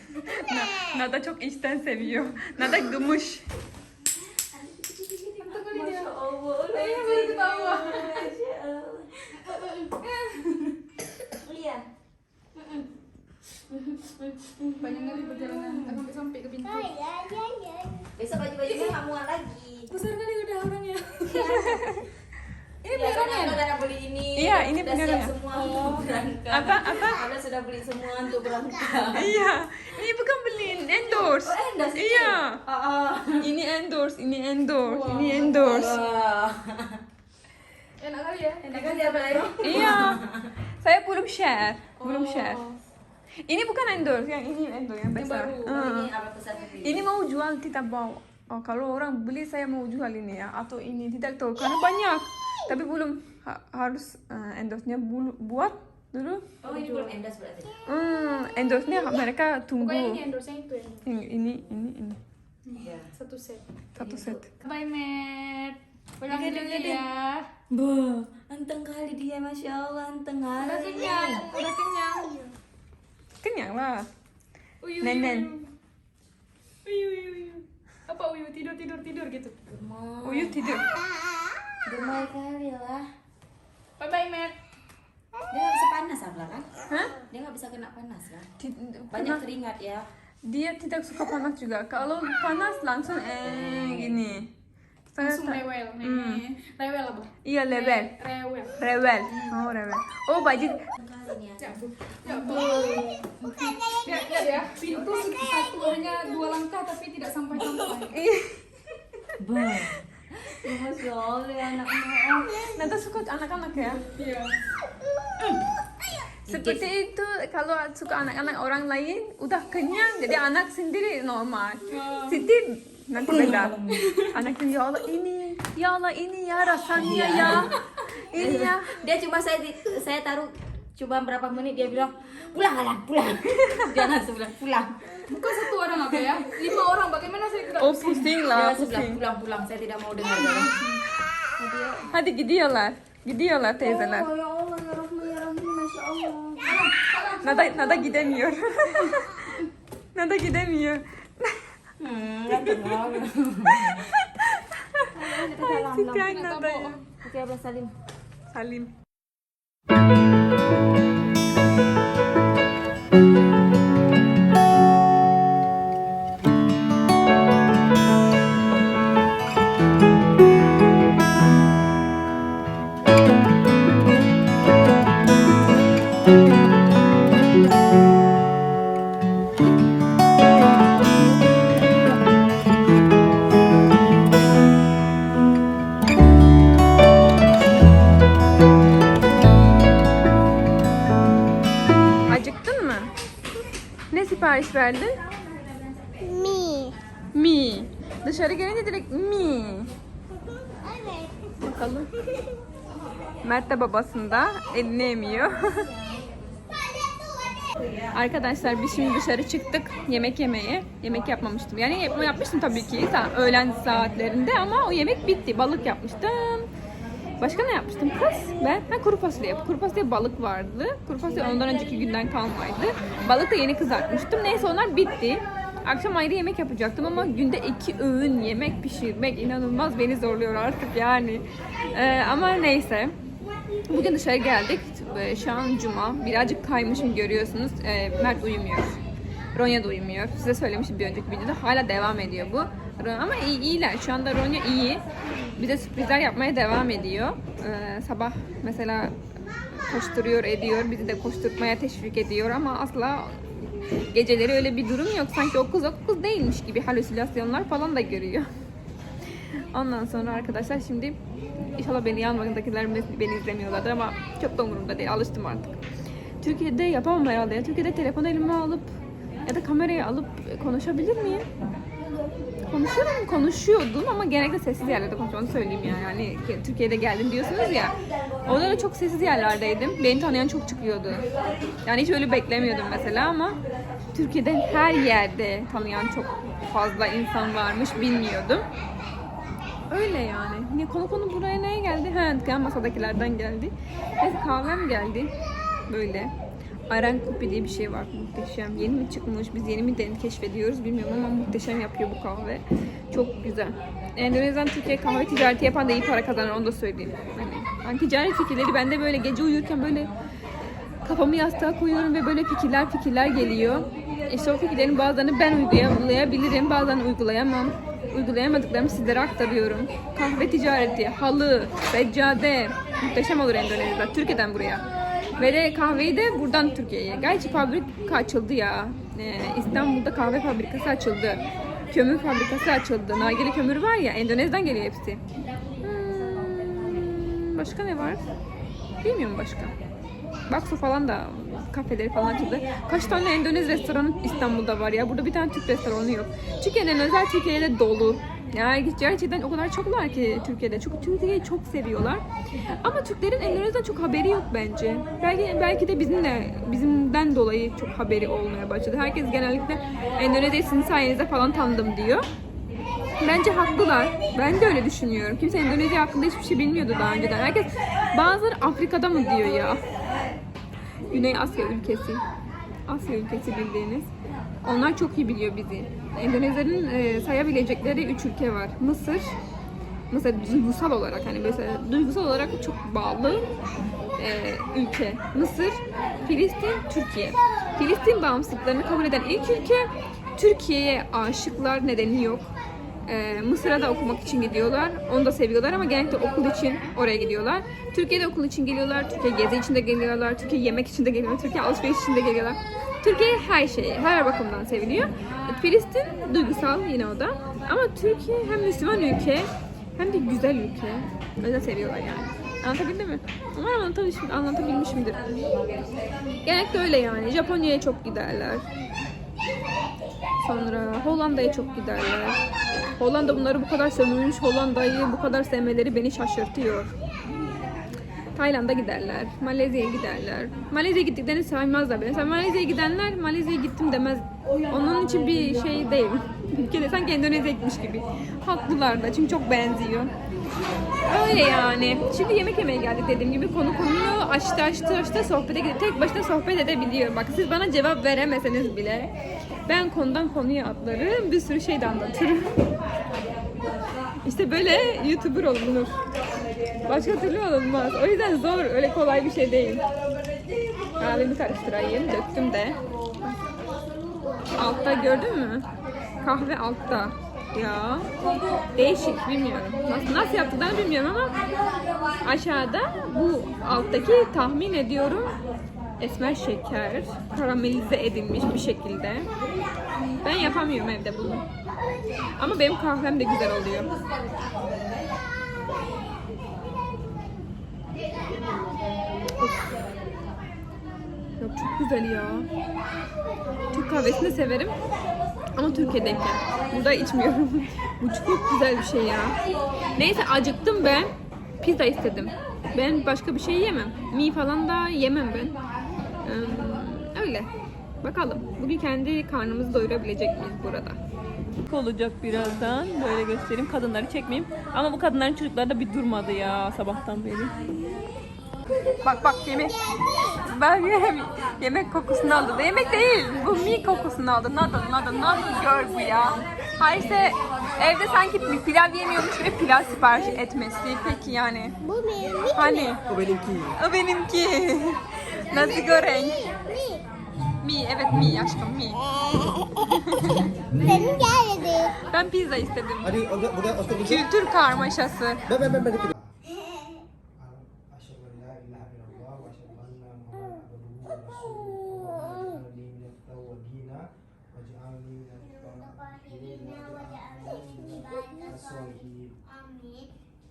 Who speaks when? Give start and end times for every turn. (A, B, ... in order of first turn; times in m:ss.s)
0:00.2-0:03.4 A
0:04.4-0:09.4 B
0:05.4-0:08.3 C
0:09.4-0:10.7 C
0:11.3-0:11.8 B
0:12.6-0:12.9 B
0:13.7-0:16.0 B
0:14.8-0:16.9 C
0:16.6-0:18.1 D
0:18.2-0:19.9 B
0:18.7-0:18.9 C
0:19.9-0:21.8 C
0:21.2-0:22.0 B
0:21.6-0:22.0 A
0:22.8-0:23.7 C
0:22.9-0:29.4 B
0:24.3-0:25.3 A
0:25.5-0:26.1 C
0:26.5-0:27.2 A
0:29.1-0:32.6 A
0:31.2-0:33.5 B
0:33.4-0:36.0 A
0:34.8-0:35.7 C
0:35.1-0:37.0 B
0:38.0-0:40.0 C
0:38.6-0:40.5 B
0:39.6-0:40.2 A
0:40.8-0:42.6 A
0:42.0-0:42.8 C
0:43.5-0:46.1 A
0:45.2-0:45.8 C
0:45.6-0:47.1 B
0:46.8-0:56.4 A
0:56.6-0:57.8 B
0:56.6-0:57.1 C
0:57.8-1:00.2 A
0:59.8-1:01.1 C
1:01.0-1:02.2 A
1:02.6-1:03.6 C
1:02.8-1:03.1 B
1:03.9-1:04.5 A
1:04.0-1:04.4 B
1:04.6-1:07.5 C
1:06.2-1:07.0 B
1:07.7-1:11.5 B
1:10.6-1:12.4 C
1:13.4-1:14.1 A
1:14.8-1:15.7 C
1:15.0-1:15.5 A
1:16.8-1:19.5 C
1:19.7-1:20.6 B
1:20.2-1:20.9 A
1:21.8-1:23.1 B
1:24.0-1:24.6 C
1:25.5-1:26.7 B
1:26.9-1:27.1 A
1:27.3-1:28.5 B
1:28.6-1:29.4 A
1:29.1-1:30.1 B
1:30.4-1:34.5 A
1:33.4-1:34.2 B
1:35.2-1:36.4 A
1:35.2-1:39.6 C
1:37.4-1:38.1 A
1:38.8-1:40.9 A
1:41.0-1:43.0 B
1:41.6-1:48.2 C
1:42.5-1:46.2 D
1:44.6-1:45.0 B
1:48.1-1:48.6 A
1:49.4-1:52.1 B
1:49.6-1:50.0 A
1:51.8-1:52.7 C
1:52.5-1:54.0 A
1:53.8-1:54.6 C
1:55.4-1:55.6 B
1:56.5-1:56.8 B
1:56.5-2:07.8 A
2:01.9-2:02.4 C
2:03.2-2:04.1 B
2:03.9-2:04.3 C
2:06.9-2:07.8 B
2:08.3-2:09.0 A
2:08.3-2:16.5 B
2:15.3-2:18.4 C
2:17.8-2:19.2 A
2:18.4-2:20.8 B
2:20.3-2:21.0 C
2:21.6-2:22.1 B
2:22.1-2:24.3 A
2:23.8-2:26.8 B
2:26.6-2:28.2 C
2:27.4-2:29.6 A
2:30.1-2:31.7 A
2:32.0-2:34.0 B
2:32.5-2:37.0 A
2:35.1-2:36.3 B
2:36.2-2:37.0 C
2:37.2-2:37.9 B
2:38.5-2:38.9 A
3:12.3-3:13.1 A
3:14.1-3:15.2 A
3:16.2-3:17.0 D
3:17.3-3:19.9 A
3:20.6-3:21.5 D
3:21.6-3:22.1 A
3:23.4-3:25.9 A
3:28.1-3:36.7 A
3:37.4-3:53.1 A
3:53.9-3:59.0 A
3:59.5-4:05.0 A
4:05.6-4:09.2 A
4:09.7-4:13.6 A
4:14.1-4:18.5 A
4:19.5-4:21.2 A
4:21.8-4:25.8 A
4:26.4-4:28.9 A
4:29.4-4:31.4 A
4:32.7-4:41.2 A
4:41.8-4:43.6 A
4:44.1-4:48.6 A
4:49.9-4:55.3 A
4:55.9-4:56.3 A
4:56.9-5:10.1 A
5:11.0-5:35.2 A
5:35.8-5:38.2 A
5:39.0-5:39.7 A
5:40.5-6:02.3 A
6:03.2-6:09.8 A
6:11.0-6:12.2 A
6:12.9-6:14.1 A
6:14.6-6:19.3 A
6:20.1-6:23.5 A
6:24.2-6:32.5 A
6:33.0-6:55.5 A
6:55.4-6:56.7 B
6:56.4-6:58.6 A
7:00.4-7:06.9 A
7:08.3-7:20.1 A
7:21.0-7:29.1 A
7:29.7-7:32.6 A
7:34.2-7:36.0 A
7:36.8-7:39.8 A
7:41.0-7:43.4 A
7:44.5-7:45.7 A
7:46.2-7:48.1 A
7:48.2-7:48.7 B
7:48.7-7:51.4 A
7:51.4-7:52.2 B
7:52.2-7:55.4 A
7:56.0-7:59.3 A
8:00.2-8:01.5 A
8:02.4-8:03.9 A
8:04.0-8:04.9 B
8:08.3-8:10.5 B
8:11.4-8:12.5 A
8:13.7-8:14.7 A
8:15.5-8:19.4 A
8:19.9-8:25.6 A
8:26.2-8:27.5 A
8:28.0-8:31.0 A
8:31.6-8:37.5 A
8:37.6-8:38.1 B
8:39.0-8:51.8 A
8:45.6-8:47.7 B
8:51.8-8:53.0 D
8:52.5-8:53.0 A
8:53.1-8:53.7 E
8:53.8-8:56.5 A
8:55.5-8:57.0 D
8:57.6-8:59.1 A
8:59.8-9:00.4 A
9:00.7-9:02.1 D
9:02.1-9:03.2 A
9:03.0-9:04.3 E
9:03.9-9:05.4 A
9:05.5-9:06.3 E
9:06.5-9:07.0 D
9:07.4-9:19.3 E
9:11.5-9:12.5 D
9:15.4-9:20.1 D